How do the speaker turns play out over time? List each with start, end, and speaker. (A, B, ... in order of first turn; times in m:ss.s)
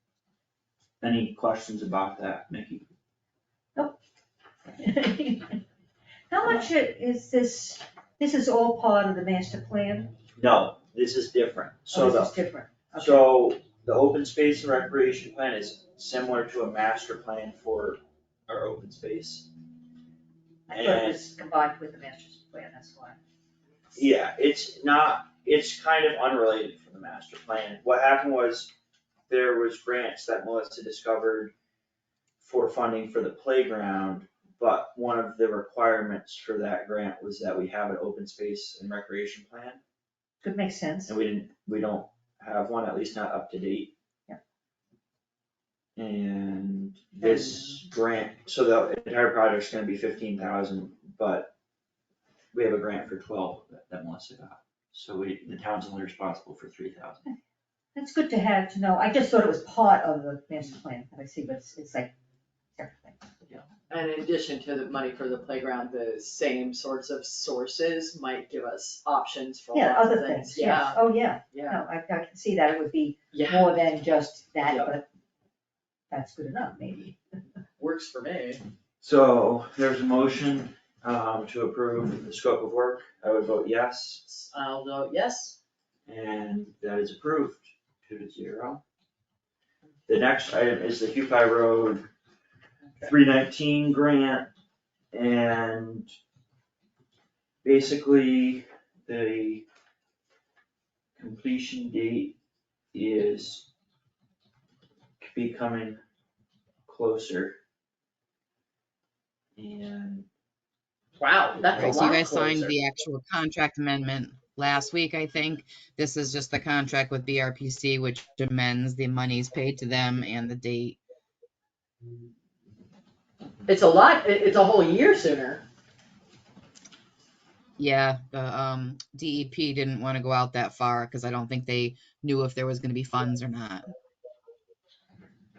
0:01.0-0:02.9 A
0:04.8-0:05.6 B
0:06.3-0:10.1 B
0:10.4-0:12.4 A
0:11.9-0:13.3 B
0:13.0-0:19.5 A
0:20.7-0:23.2 B
0:20.7-0:21.2 A
0:24.0-0:28.7 A
0:29.3-0:31.5 A
0:32.4-0:39.8 A
0:40.4-0:41.2 B
0:41.1-0:43.9 A
0:46.0-0:51.5 A
0:52.5-0:57.2 A
0:58.0-1:02.1 B
1:02.8-1:03.2 B
1:03.9-1:11.8 C
1:09.7-1:15.0 B
1:13.3-1:13.8 C
1:16.1-1:17.2 B
1:17.8-1:18.6 C
1:19.0-1:24.2 A
1:24.2-1:25.6 C
1:26.1-1:28.8 A
1:30.1-1:32.1 A
1:33.0-1:34.5 A
1:35.1-1:36.1 A
1:37.6-1:39.7 A
1:41.2-1:42.4 A
1:42.9-1:43.7 A
1:45.2-1:46.0 A
1:46.9-1:47.6 A
1:49.6-1:50.3 A
1:51.2-1:52.7 C
1:51.8-2:01.0 D
2:03.7-2:05.6 C
2:07.8-2:13.9 D